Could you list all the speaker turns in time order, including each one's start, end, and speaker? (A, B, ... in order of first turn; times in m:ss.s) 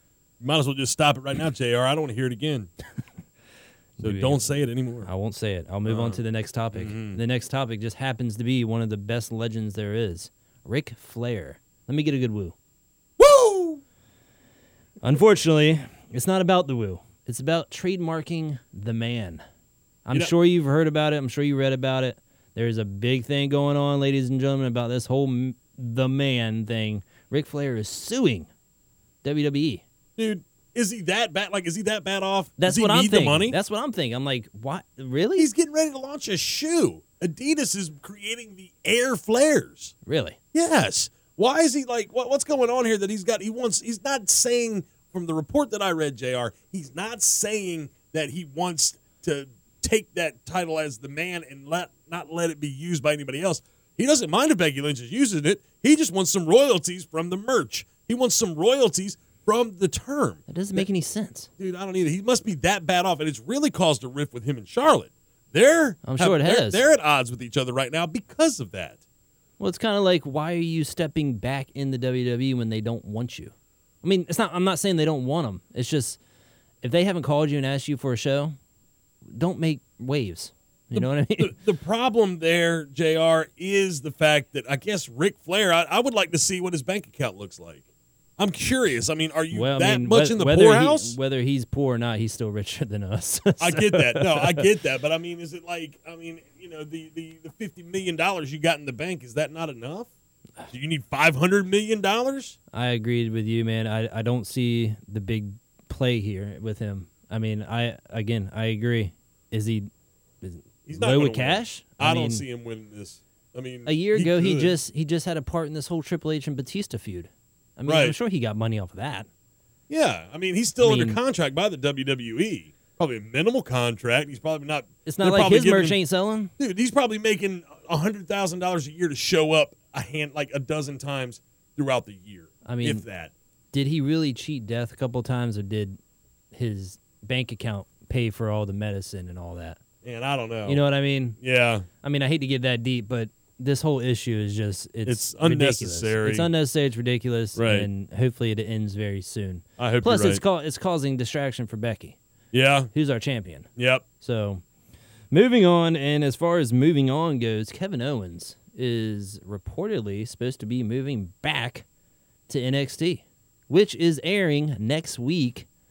0:00.4-0:02.7 A
0:04.0-0:04.5 B
0:04.0-0:05.1 A
0:05.0-0:12.6 B
0:05.9-0:06.2 A
0:06.7-0:07.2 A
0:13.2-0:13.8 A
0:15.0-0:19.4 B
0:20.1-0:28.5 B
0:29.2-0:29.8 B
0:30.2-0:33.6 A
0:32.6-0:35.5 B
0:35.4-0:39.9 A
0:40.0-0:40.4 B
0:40.5-1:00.9 A
1:00.5-1:01.5 B
1:01.6-1:09.0 A
1:06.0-1:06.8 B
1:09.6-1:16.2 B
1:16.8-1:18.6 B
1:19.3-1:21.6 B
1:21.0-1:27.8 A
1:28.4-1:31.2 A
1:29.5-1:34.7 B
1:33.6-1:40.1 A
1:40.7-1:42.6 A
1:42.7-1:49.9 B
1:50.4-1:52.4 B
1:50.9-1:54.8 A
1:53.9-1:59.3 B
1:57.9-1:58.2 A
1:59.9-2:06.0 A
2:00.8-2:01.2 B
2:05.1-2:06.5 B
2:06.6-2:13.3 A
2:12.6-2:13.0 B
2:13.7-2:16.0 B
2:16.5-2:19.8 B
2:20.0-2:20.8 A
2:20.7-2:21.4 B
2:21.4-2:21.9 A
2:22.0-2:32.2 B
2:25.0-2:26.5 A
2:27.6-2:27.9 A
2:29.8-2:30.4 A
2:32.5-2:32.9 A
2:32.9-2:33.7 B
2:33.8-2:34.0 A
2:34.2-2:34.6 B
2:35.3-2:41.8 B
2:42.5-2:45.7 B